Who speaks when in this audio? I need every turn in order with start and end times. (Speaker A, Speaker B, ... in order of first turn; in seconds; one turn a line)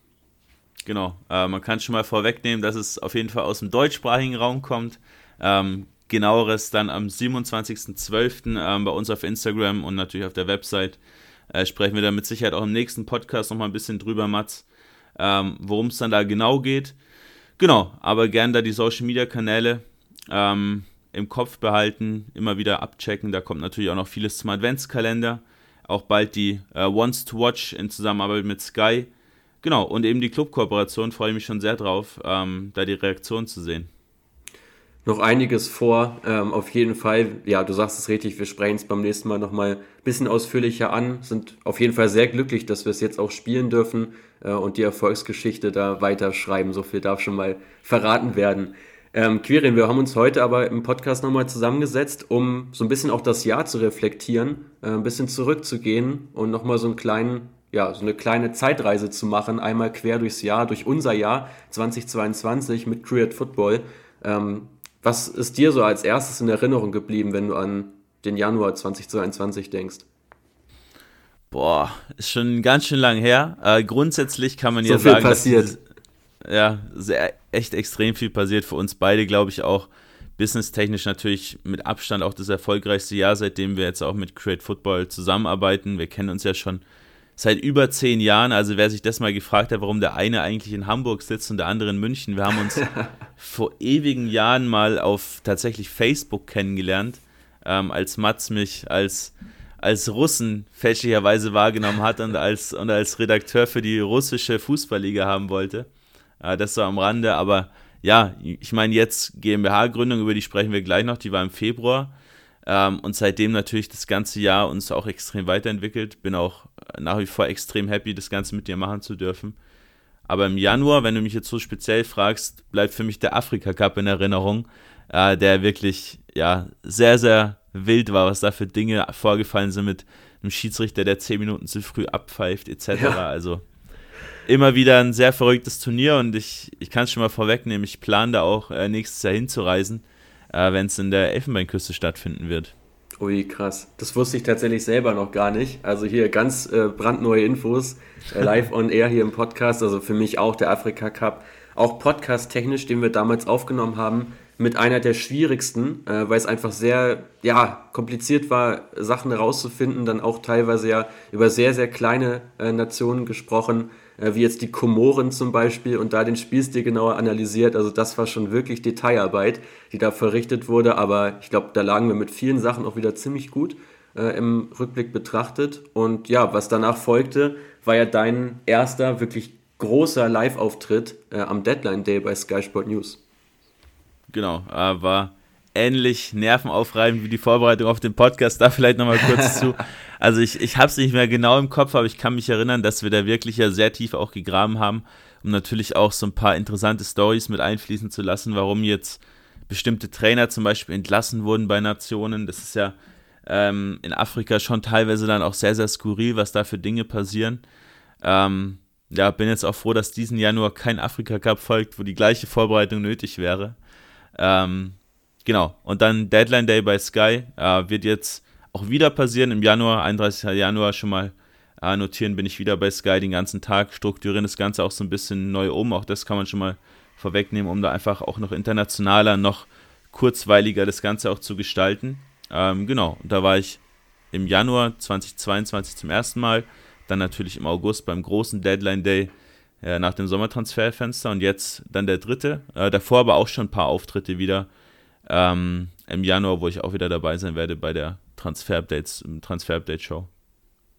Speaker A: 0.9-11.0
Speaker A: 11.5-14.7
Speaker A: 15.2-17.0
Speaker A: 17.6-29.1
Speaker A: 29.6-33.9
Speaker B: 35.1-70.0
Speaker A: 71.5-75.8
Speaker B: 74.8-75.8
Speaker A: 76.4-86.8
Speaker A: 87.4-112.1
Speaker A: 112.7-119.6
Speaker A: 120.3-133.6
Speaker B: 132.9-133.2
Speaker A: 134.5-142.7
Speaker B: 143.2-183.2
Speaker A: 184.3-207.6
Speaker B: 189.3-189.7
Speaker A: 208.2-213.8
Speaker A: 214.3-233.8
Speaker A: 234.3-244.7
Speaker A: 245.3-250.3